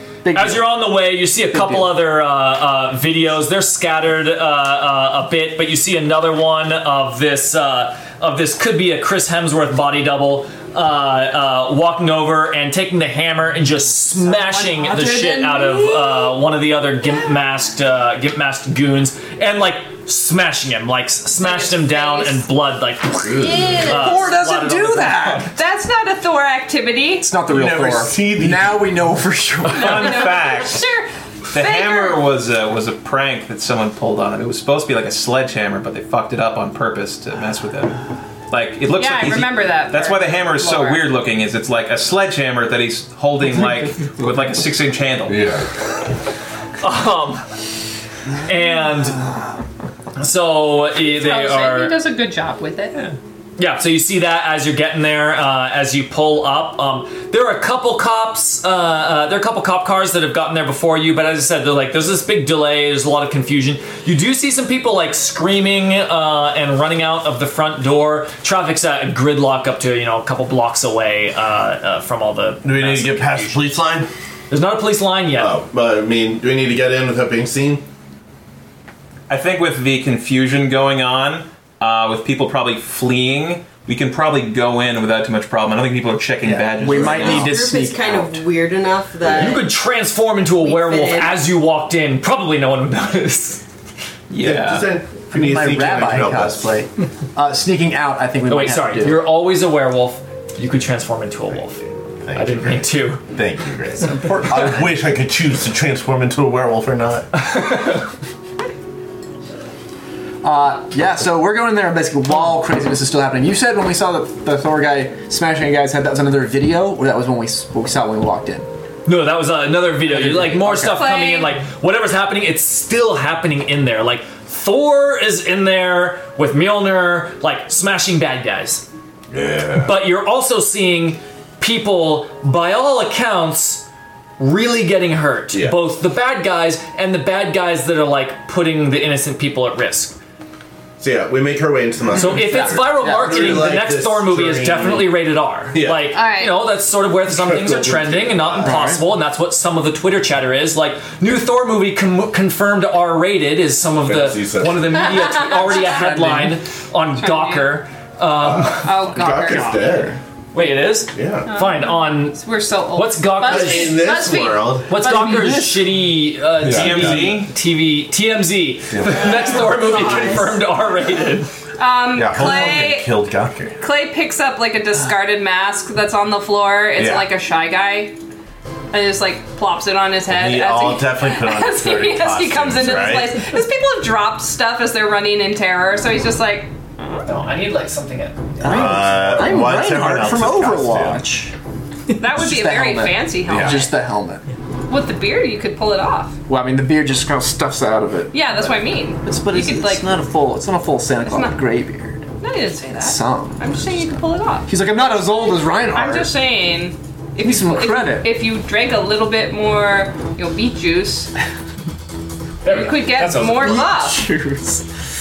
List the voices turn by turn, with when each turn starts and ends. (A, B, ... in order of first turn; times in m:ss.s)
0:00.2-0:02.0 A
0:00.3-0:25.4 B
0:14.3-0:16.2 A
0:21.4-0:22.4 C
0:23.4-0:24.3 C
0:23.8-0:25.5 A
0:25.5-0:27.3 C
0:27.2-0:30.4 A
0:27.4-0:28.9 D
0:29.7-0:30.9 E
0:29.7-0:32.2 C
0:31.5-0:38.0 E
0:38.5-0:45.5 E
0:38.9-0:41.1 C
0:45.3-0:45.7 D
0:46.8-0:47.5 B
0:48.4-0:49.2 B
0:50.2-0:52.0 B
0:51.0-0:53.0 C
0:53.6-1:13.7 B
1:12.6-1:14.1 D
1:14.5-1:15.6 B
1:15.3-1:17.8 D
1:19.3-1:27.6 E
1:26.4-1:28.4 A
1:26.9-1:29.7 F
1:29.3-1:33.6 B
1:30.6-1:31.4 F
1:34.3-1:34.9 E
1:34.4-1:36.6 D
1:35.3-1:39.3 A
1:38.5-1:43.2 B
1:41.8-1:47.4 D
1:47.6-1:47.9 B
1:50.4-1:58.7 A
1:59.0-2:08.8 B
2:00.0-2:01.0 A
2:00.8-2:01.6 C
2:09.3-2:10.0 D
2:09.8-2:13.9 B
2:14.4-2:20.2 B
2:15.5-2:15.8 D
2:21.0-2:25.2 D
2:22.2-2:40.0 B
2:22.2-2:23.7 A
2:25.7-2:26.1 D
2:26.1-2:26.7 C
2:27.3-2:28.6 D
2:28.6-2:29.0 A
2:34.0-2:35.0 D
2:35.1-2:35.8 C
2:35.8-2:36.6 A
2:37.2-2:37.7 C
2:38.4-2:40.2 D
2:38.8-2:40.0 C
2:40.5-2:42.4 B
2:41.1-2:41.5 D
2:41.4-2:45.7 C
2:42.9-2:44.0 B
2:43.4-2:44.9 D
2:44.9-2:51.5 B
2:45.1-2:45.6 A
2:46.6-2:47.4 D
2:46.6-2:47.5 E
2:48.9-2:49.4 D
2:49.0-2:50.6 F
2:51.8-2:53.1 C
2:52.1-2:53.8 D
2:53.8-2:58.2 C
2:57.0-2:57.3 D
2:58.9-3:06.7 C
3:00.3-3:03.4 D
3:07.2-3:08.5 B
3:08.6-3:11.5 A
3:08.6-3:11.2 D
3:12.2-3:14.0 C
3:12.2-3:14.4 A
3:13.5-3:13.8 D
3:14.9-3:16.4 C
3:16.5-3:22.2 A
3:18.3-3:20.1 C
3:21.2-3:21.6 C
3:22.4-3:31.3 C
3:23.0-3:23.8 A
3:24.7-3:26.3 A
3:27.4-3:28.3 A
3:32.6-3:33.8 B
3:32.6-3:34.3 C
3:33.2-3:34.9 A